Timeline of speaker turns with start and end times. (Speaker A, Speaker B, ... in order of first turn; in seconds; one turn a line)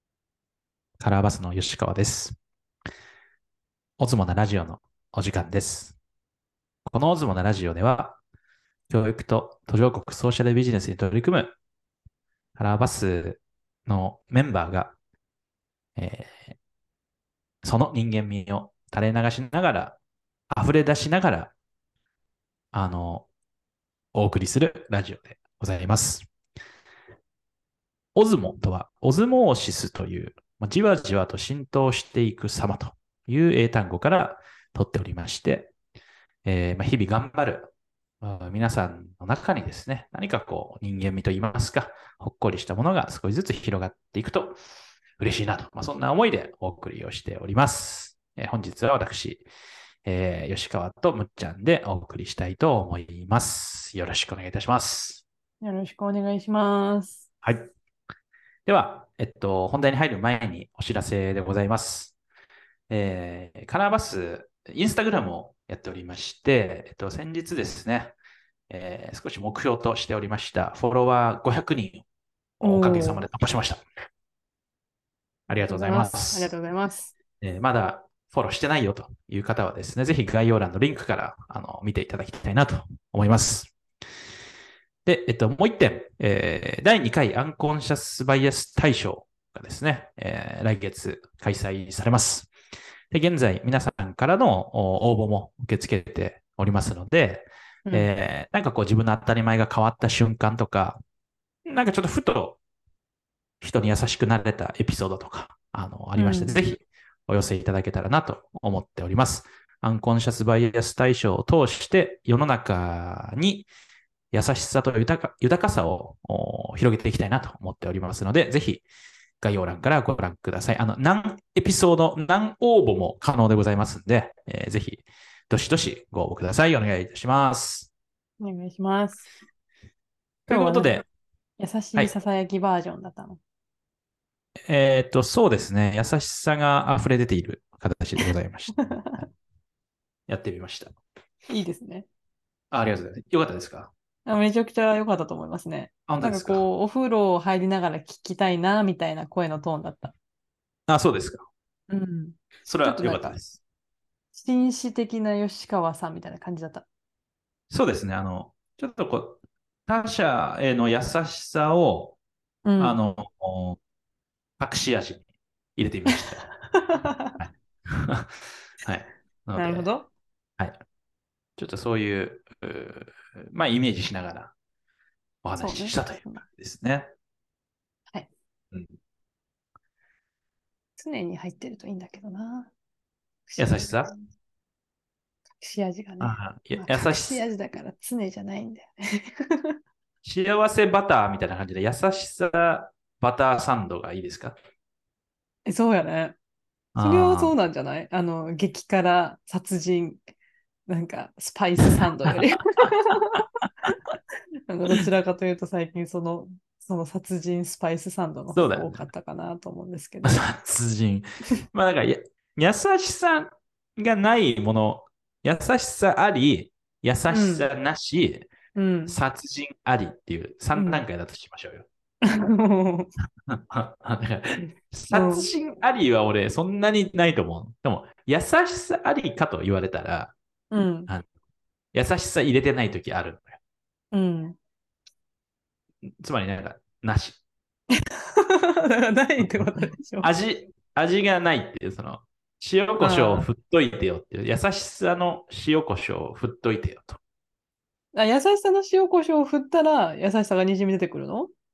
Speaker A: 1.0-2.4
Speaker A: 4.0-6.0
Speaker A: 6.9-8.2
Speaker A: 8.9-11.5
Speaker A: 12.6-15.0
Speaker A: 16.0-16.6
Speaker A: 17.6-20.0
Speaker A: 20.5-21.5
Speaker A: 22.7-23.3
Speaker A: 24.1-26.3
Speaker A: 28.1-35.7
Speaker A: 36.5-44.6
Speaker A: 45.2-49.5
Speaker A: 50.0-55.2
Speaker B: 55.6-57.2
Speaker A: 57.4-57.7
Speaker A: 58.7-62.2
Speaker A: 62.9-68.2
Speaker A: 68.7-72.0
Speaker A: 72.6-73.8
Speaker B: 72.6-73.2
Speaker A: 75.5-76.5
Speaker B: 75.7-77.1
Speaker A: 77.4-83.7
Speaker A: 85.0-92.5
Speaker A: 93.1-101.0
Speaker A: 101.7-102.6
Speaker A: 103.6-113.7
Speaker B: 106.2-106.6
Speaker A: 114.3-118.8
Speaker A: 119.4-127.9
Speaker B: 128.4-129.3
Speaker A: 130.5-131.1
Speaker B: 130.5-131.0
Speaker B: 131.6-133.4
Speaker A: 134.7-138.9
Speaker B: 138.8-139.3
Speaker A: 140.3-140.9
Speaker B: 141.5-142.1
Speaker A: 142.7-143.9
Speaker B: 144.3-150.1
Speaker A: 146.1-146.6
Speaker A: 150.9-151.5
Speaker B: 151.9-153.4
Speaker A: 152.7-153.6
Speaker B: 154.3-156.8
Speaker A: 157.7-162.2
Speaker B: 162.7-163.0
Speaker A: 162.8-163.8
Speaker A: 164.6-165.2
Speaker A: 165.8-166.5
Speaker B: 166.2-167.4
Speaker A: 167.4-169.9
Speaker B: 169.6-170.1
Speaker A: 171.6-174.5
Speaker A: 175.4-177.1
Speaker B: 175.6-176.4
Speaker B: 181.0-182.7
Speaker B: 183.5-184.2
Speaker A: 183.6-184.1
Speaker B: 185.6-189.8
Speaker A: 186.2-187.4
Speaker A: 190.2-194.6
Speaker B: 195.7-196.4
Speaker A: 196.9-197.5
Speaker B: 197.0-200.2
Speaker B: 200.9-203.4
Speaker B: 204.7-210.5
Speaker A: 208.5-209.0
Speaker A: 210.2-218.5
Speaker B: 217.3-217.7
Speaker B: 218.8-219.2
Speaker A: 219.1-221.9
Speaker B: 220.8-221.0
Speaker B: 222.2-223.1
Speaker A: 223.5-230.3
Speaker B: 225.1-225.5
Speaker B: 230.7-231.1
Speaker A: 231.9-233.6
Speaker B: 234.1-234.6
Speaker A: 236.2-237.4
Speaker B: 238.0-240.3
Speaker A: 240.2-247.2
Speaker B: 243.0-243.5
Speaker B: 248.1-251.5